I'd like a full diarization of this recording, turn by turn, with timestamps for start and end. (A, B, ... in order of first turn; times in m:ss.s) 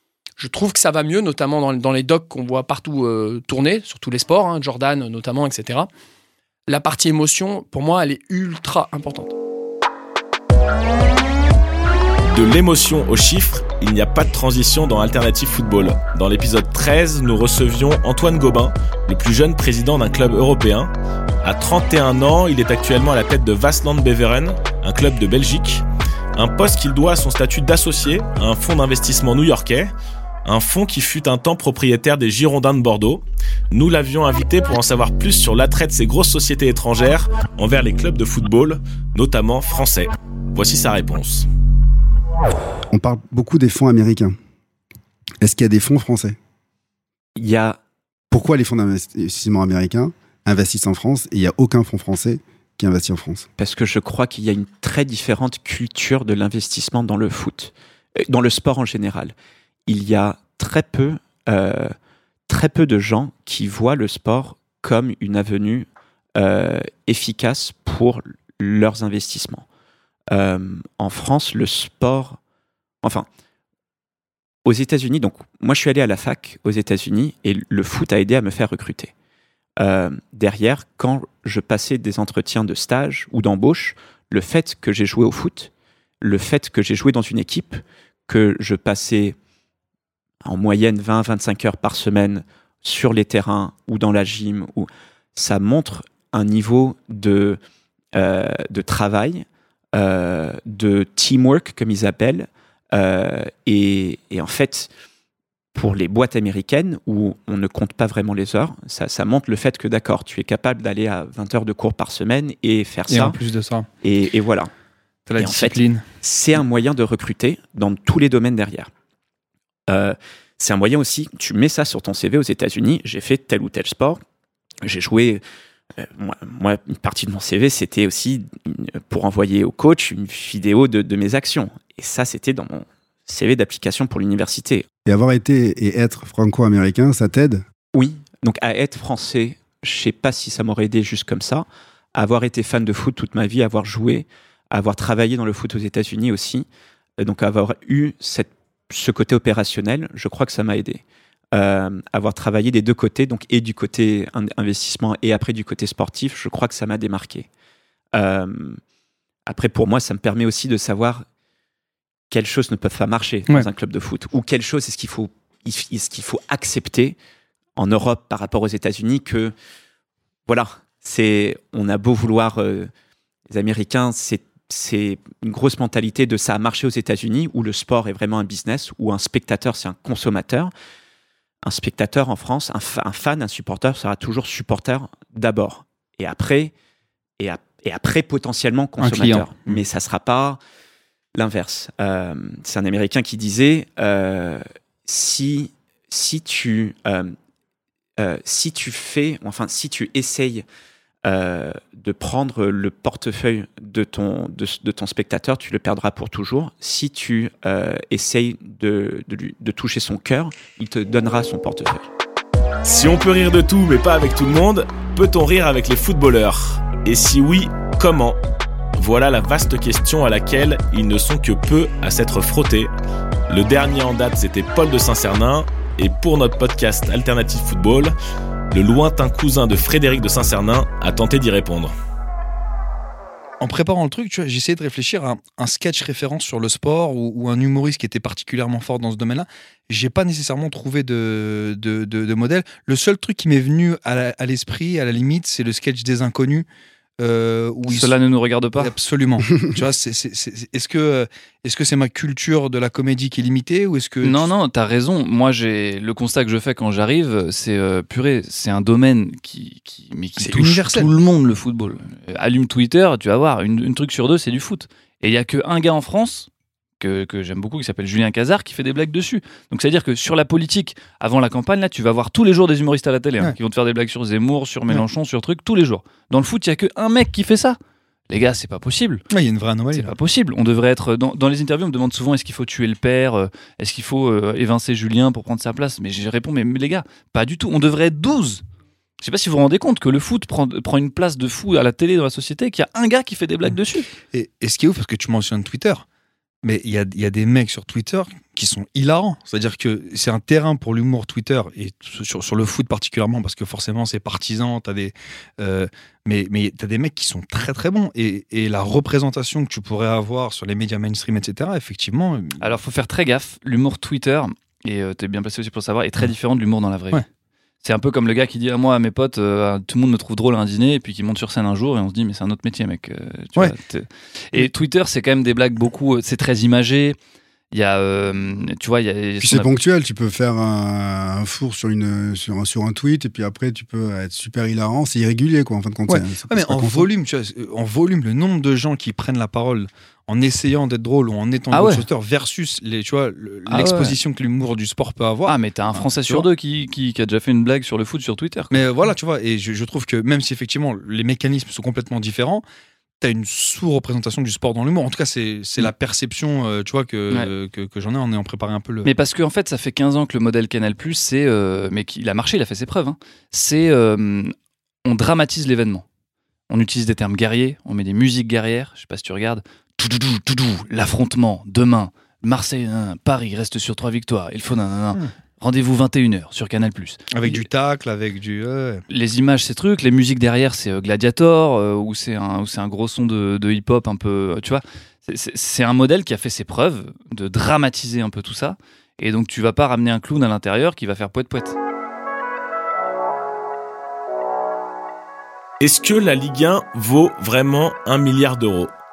0:00.4-0:05.9 A
0:06.7-0:09.3 A
0:12.3-0:20.9 B
0:21.4-0:25.8 B
0:26.4-0:29.9 B
0:30.4-0:41.5 B
0:42.9-0:44.4 C
0:45.4-0:46.4 C
0:47.4-0:47.8 D
0:48.3-0:53.5 C
0:53.6-0:57.7 D
0:58.3-0:59.4 D
0:59.9-1:02.0 D
1:02.5-1:09.7 D
1:10.3-1:12.4 D
1:14.7-1:19.1 D
1:19.8-1:25.7 D
1:26.2-1:29.4 D
1:30.4-1:37.6 D
1:38.2-1:44.9 D
1:45.8-1:53.4 D
1:53.1-1:53.9 E
1:54.0-1:54.7 D
1:55.3-1:56.0 E
1:55.4-1:58.9 D
1:59.9-2:04.2 D
2:04.8-2:05.4 D
2:06.0-2:14.8 D
2:15.1-2:17.6 C
2:17.9-2:26.7 D
2:27.2-2:37.5 D
2:38.1-2:38.8 D
2:39.5-2:41.2 D
2:42.3-2:47.2 D
2:47.8-2:49.5 D
2:50.5-2:52.9 D
2:53.5-3:00.7 D
3:01.6-3:06.7 D
3:07.4-3:10.6 D
3:09.0-3:09.8 E
3:11.4-3:17.4 D
3:18.2-3:20.6 D
3:21.2-3:32.1 D
3:32.8-3:38.4 B
3:39.0-3:42.9 B
3:43.5-3:48.1 B
3:48.7-3:51.9 B
3:53.6-4:06.7 E
4:07.2-4:08.2 E
4:07.9-4:09.0 F
4:08.8-4:14.5 E
4:14.2-4:26.5 F
4:20.4-4:21.1 E
4:27.0-4:37.8 F
4:38.3-4:39.2 F
4:39.3-4:40.1 E
4:39.9-4:48.6 F
4:49.2-4:54.1 F
4:54.3-4:56.0 E
4:56.6-5:12.7 E
5:12.6-5:17.3 F
5:17.8-5:27.2 F
5:27.7-5:29.7 F
5:29.4-5:37.1 C
5:36.1-5:46.5 E
5:41.7-5:42.1 F
5:43.7-5:44.2 F
5:45.5-5:49.1 F
5:48.7-5:52.6 E
5:53.2-5:59.1 E
5:59.0-6:04.5 F
6:05.0-6:06.0 F
6:06.7-6:17.7 F
6:17.3-6:19.0 E
6:19.1-6:31.8 F
6:35.8-6:38.9 B